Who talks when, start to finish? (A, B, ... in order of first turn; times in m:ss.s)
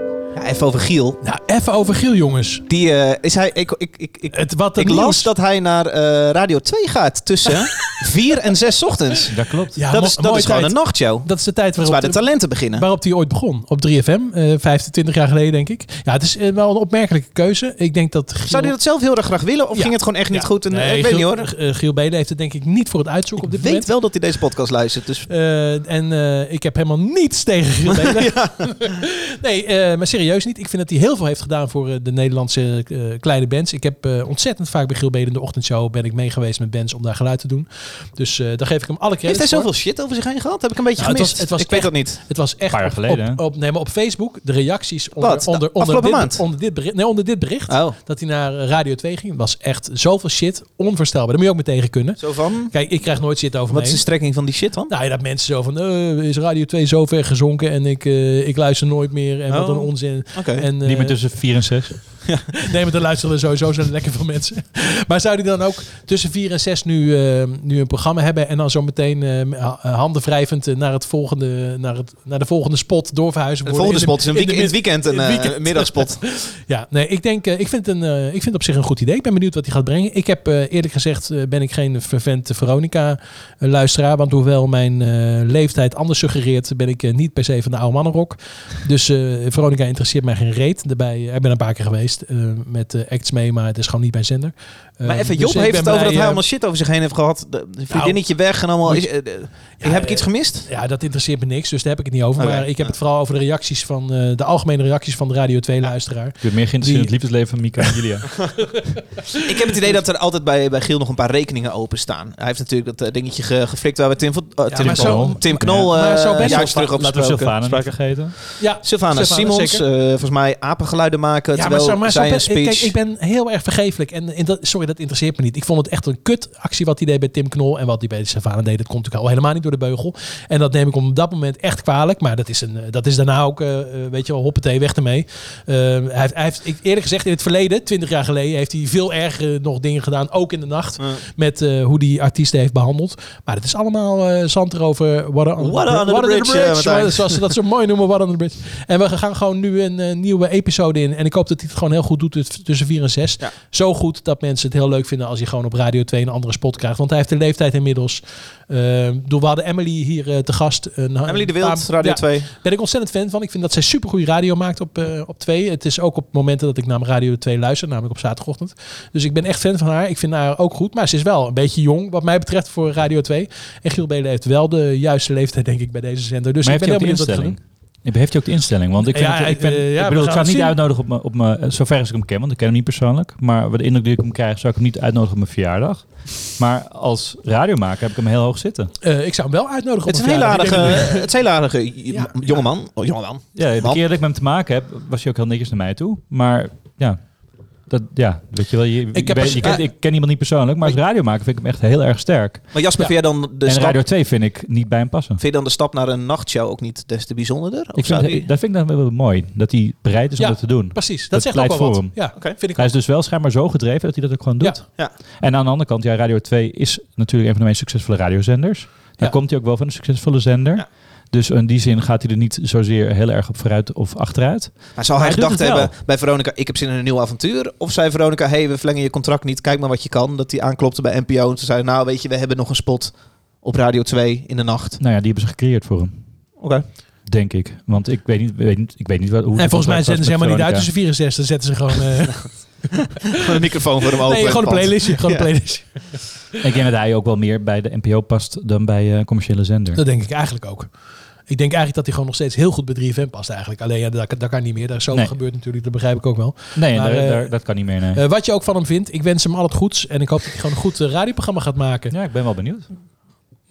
0:00.3-0:01.2 A
0:01.2-0:02.6 B
0:02.7-0:09.3 A
0:04.3-0:05.3 B
0:09.3-0:09.8 C
0:09.8-0:18.7 B
0:09.9-0:12.8 A
0:18.4-0:21.5 A
0:19.7-0:23.9 B
0:23.4-0:25.3 A
0:25.3-0:39.7 B
0:27.9-0:28.8 A
0:39.2-0:42.2 A
0:41.0-0:54.0 B
0:42.7-0:43.4 C
0:45.2-0:46.4 A
0:47.7-0:48.0 A
0:52.2-0:52.7 A
0:53.7-0:54.9 A
0:54.9-1:01.3 B
0:59.5-1:00.7 A
1:00.8-1:02.2 C
1:02.6-1:36.4 B
1:13.6-1:16.2 A
1:35.0-1:40.7 A
1:37.9-1:47.1 B
1:42.4-1:42.9 A
1:46.4-1:48.5 C
1:49.4-2:02.9 A
1:54.7-1:57.3 B
1:54.8-1:58.4 C
1:58.6-1:59.8 B
2:01.5-2:57.6 B
2:25.6-2:27.4 A
2:41.2-2:42.5 A
2:56.6-3:08.9 C
2:59.0-3:00.7 B
3:09.0-3:11.3 B
3:10.0-3:14.0 A
3:12.1-3:12.6 B
3:13.6-3:22.7 C
3:19.1-3:19.8 B
3:22.7-3:24.0 A
3:23.6-3:25.4 C
3:25.4-3:28.5 A
3:27.9-3:45.9 C
3:30.4-3:33.0 B
3:45.0-3:55.0 A
3:55.0-3:56.6 C
3:56.6-3:56.8 A
3:57.2-4:00.9 C
3:59.6-4:02.8 B
4:03.4-4:05.5 A
4:04.2-4:06.2 B
4:06.6-4:10.0 C
4:09.9-4:22.1 B
4:16.8-4:18.2 C
4:22.1-4:22.9 C